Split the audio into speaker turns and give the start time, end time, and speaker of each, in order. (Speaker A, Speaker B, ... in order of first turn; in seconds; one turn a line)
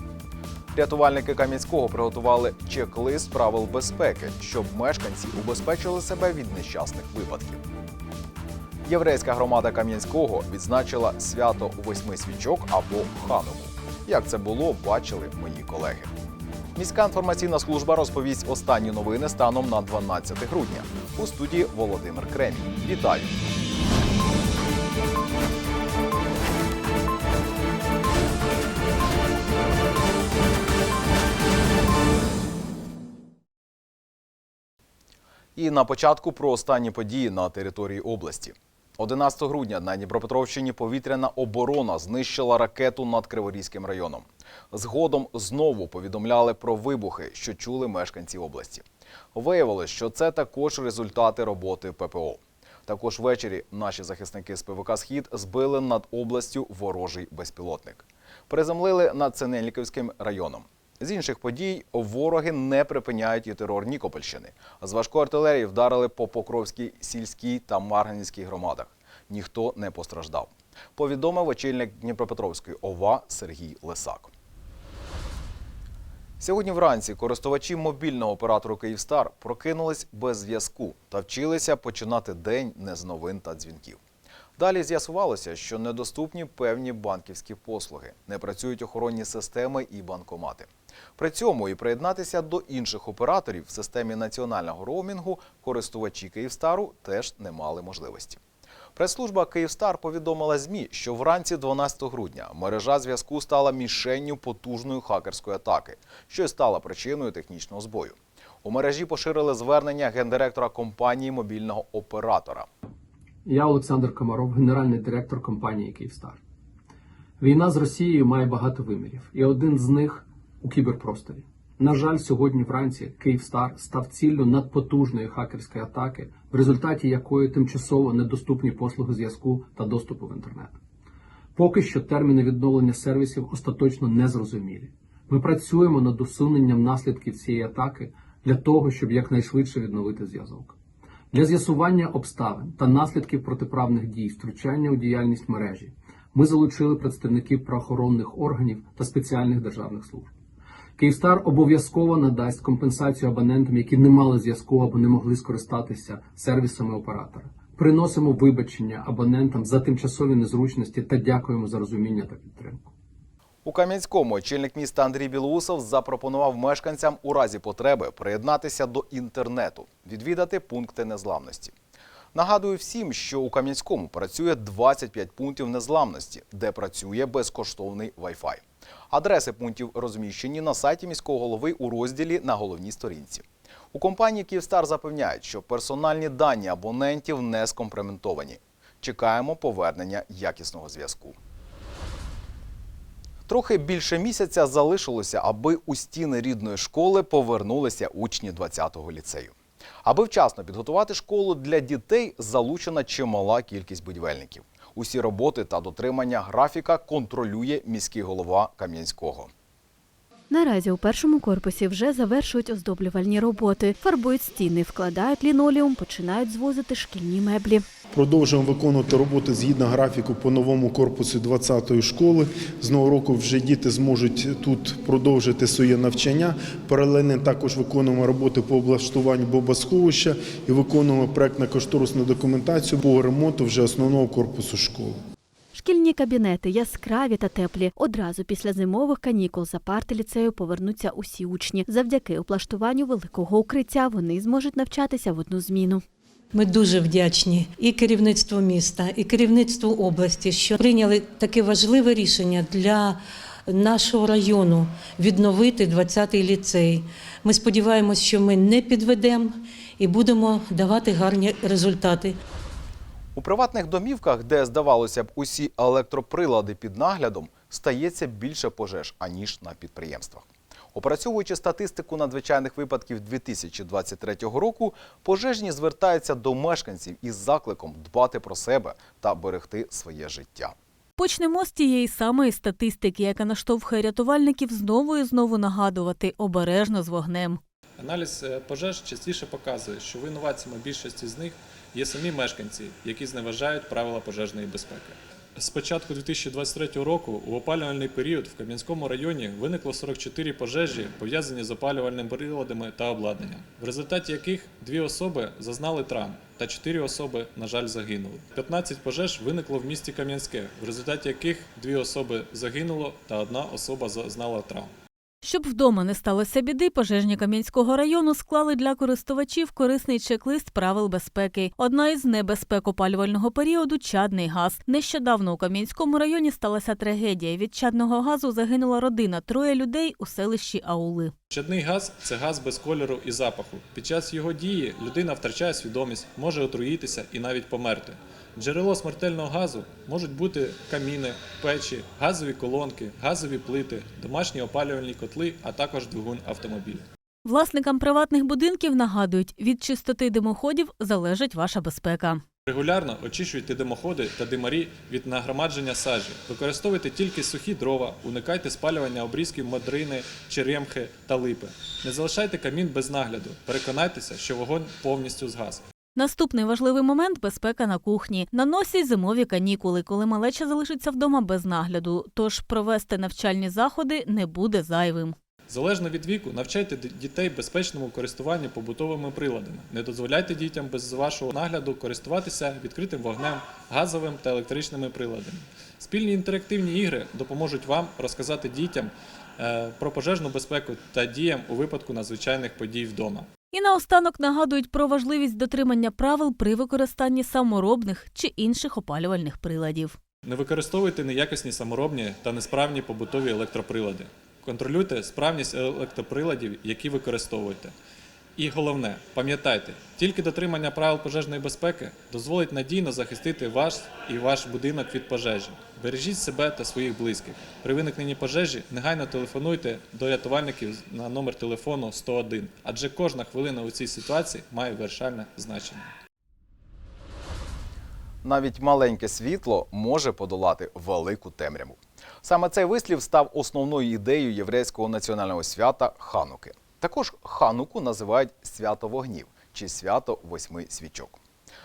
Speaker A: 0.7-7.6
Speaker A: 8.8-16.1
Speaker A: 16.8-23.3
Speaker A: 35.5-74.3
Speaker A: 76.4-84.0
Speaker A: 84.6-98.4
Speaker A: 99.0-112.7
Speaker B: 113.5-116.4
Speaker B: 117.4-130.8
Speaker B: 131.6-140.7
Speaker B: 141.3-150.3
Speaker B: 151.0-162.9
Speaker A: 163.6-171.7
Speaker A: 172.3-191.3
Speaker A: 193.5-199.5
Speaker A: 200.0-209.5
Speaker C: 210.5-217.8
Speaker D: 218.1-235.2
Speaker C: 235.7-246.0
Speaker E: 246.5-262.4
Speaker A: 263.4-280.7
Speaker F: 281.2-287.6
Speaker G: 288.0-314.9
Speaker F: 315.4-331.3
Speaker G: 331.5-347.0
Speaker F: 347.4-352.4
Speaker G: 352.7-365.8
Speaker F: 366.1-375.3
Speaker G: 375.7-393.5
Speaker F: 393.7-400.1
Speaker G: 400.4-407.9
Speaker G: 408.6-426.1
Speaker A: 428.4-441.4